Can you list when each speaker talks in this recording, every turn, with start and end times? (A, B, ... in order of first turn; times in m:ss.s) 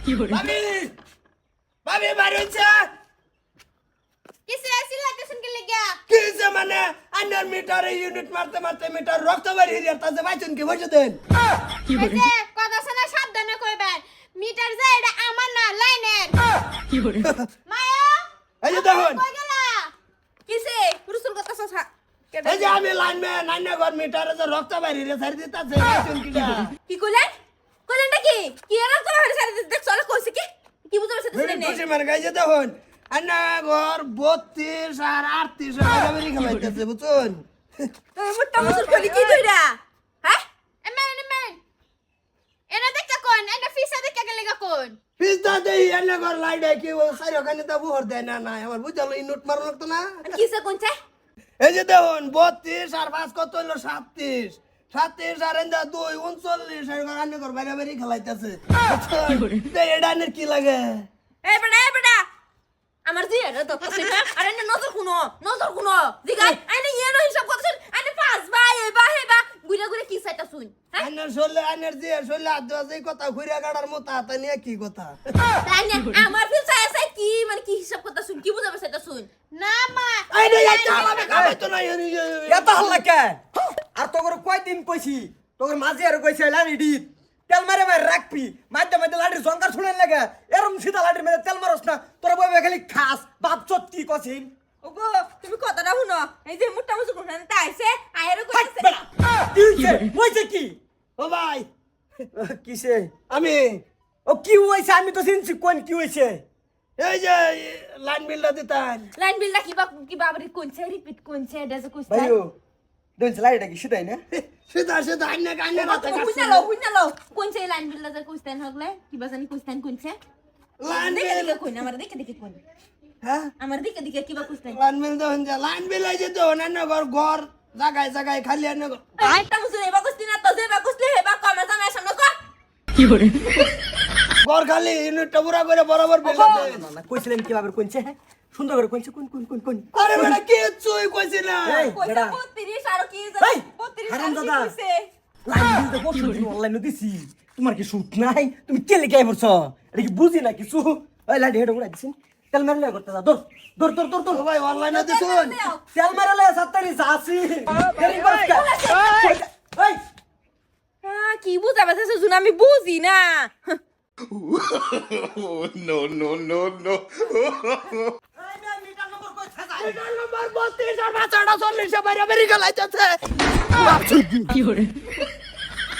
0:00.2-0:00.9 A
0:01.8-0:02.9 A
0:04.5-0:06.0 B
0:06.1-0:11.2 A
0:11.8-0:16.4 B
0:17.2-0:17.5 A
0:17.6-0:19.9 B
0:18.6-0:19.2 A
0:20.5-0:22.8 C
0:22.4-0:26.7 A
0:26.8-0:27.3 C
0:27.9-0:31.8 C
0:31.3-0:37.4 A
0:38.2-0:40.4 C
0:38.7-0:39.4 B
0:40.8-0:41.6 B
0:42.7-0:45.0 B
0:45.2-0:50.2 A
0:50.2-0:50.9 C
0:51.6-1:01.1 A
1:01.4-1:02.2 C
1:03.0-1:11.1 C
1:11.0-1:15.2 A
1:15.6-1:19.3 C
1:19.5-1:21.5 B
1:20.3-1:23.0 A
1:21.3-1:21.6 D
1:22.5-1:23.4 D
1:23.9-1:34.5 D
1:34.8-1:38.9 C
1:38.5-1:40.8 D
1:41.2-1:41.7 A
1:42.3-1:43.1 D
1:43.3-1:43.8 A
1:44.2-1:46.4 D
1:47.0-1:49.1 A
1:49.2-1:52.4 C
1:52.1-1:52.5 D
1:53.2-1:54.2 D
1:54.3-1:56.7 A
1:55.7-2:00.2 C
2:00.8-2:01.6 A
2:00.9-2:02.6 C
2:03.2-2:03.5 A
2:03.6-2:04.8 C
2:04.7-2:09.1 A
2:09.2-2:12.3 C
2:14.4-2:16.9 A
2:16.2-2:20.4 D
2:16.4-2:16.6 C
2:19.9-2:21.9 A
2:21.6-2:22.4 D
2:21.9-2:25.1 C
2:23.4-2:24.7 D
2:25.4-2:34.4 D
2:34.3-2:35.6 A
2:34.8-2:35.8 C
2:35.9-2:40.0 D
2:38.0-2:39.4 C
2:41.0-2:43.8 C
2:44.3-2:48.1 E
2:48.4-2:50.0 D
2:49.8-2:53.2 A
2:53.7-2:54.2 A